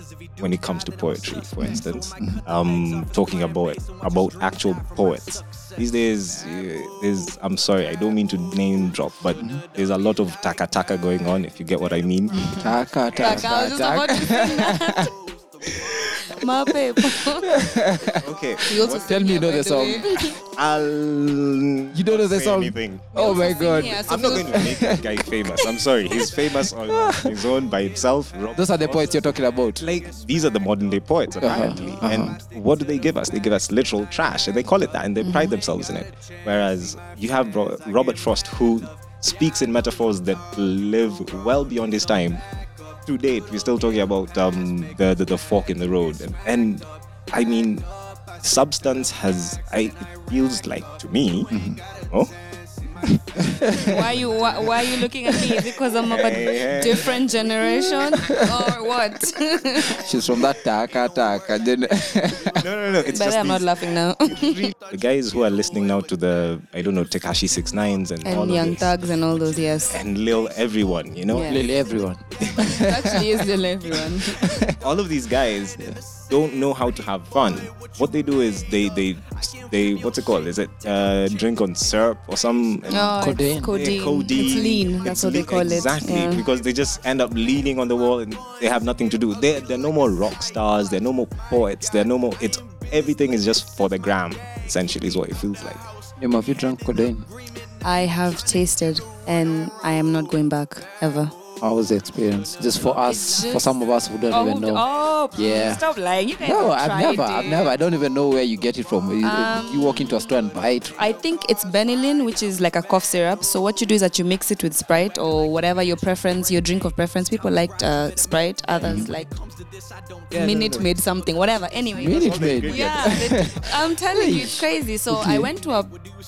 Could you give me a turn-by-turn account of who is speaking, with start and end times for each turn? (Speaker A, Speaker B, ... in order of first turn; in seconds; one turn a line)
Speaker A: 0.4-12.4
Speaker B: 1.6-2.4
Speaker B: 12.6-15.1
Speaker C: 13.2-15.1
Speaker C: 16.3-17.5
Speaker B: 17.4-20.2
Speaker A: 18.2-19.1
Speaker C: 18.7-20.4
Speaker A: 20.5-23.1
Speaker B: 21.9-25.0
Speaker C: 23.1-24.7
Speaker A: 24.1-29.1
Speaker B: 26.9-27.4
Speaker B: 28.6-29.9
Speaker A: 29.8-42.4
Speaker B: 31.4-32.4
Speaker C: 35.2-35.5
Speaker A: 43.1-47.9
Speaker A: 48.4-52.3
Speaker B: 51.5-51.8
Speaker B: 53.0-54.0
Speaker C: 53.8-60.0
Speaker A: 56.0-57.3
Speaker B: 59.9-62.7
Speaker A: 62.5-68.9
Speaker C: 63.1-64.6
Speaker C: 68.2-70.0
Speaker A: 69.9-71.5
Speaker C: 71.3-71.6
Speaker B: 71.4-73.2
Speaker C: 72.6-74.6
Speaker B: 74.4-74.7
Speaker A: 74.8-75.8
Speaker A: 76.3-83.2
Speaker C: 82.9-86.4
Speaker B: 83.2-83.7
Speaker A: 83.7-95.8
Speaker B: 96.2-97.3
Speaker C: 97.8-101.3
Speaker B: 101.6-104.8
Speaker C: 103.1-103.7
Speaker C: 104.3-107.7
Speaker B: 105.3-105.8
Speaker B: 106.4-111.0
Speaker C: 109.2-110.3
Speaker C: 111.0-119.3
Speaker B: 118.8-119.1
Speaker B: 120.3-120.9
Speaker C: 120.3-125.9
Speaker B: 122.0-125.5
Speaker A: 122.1-123.4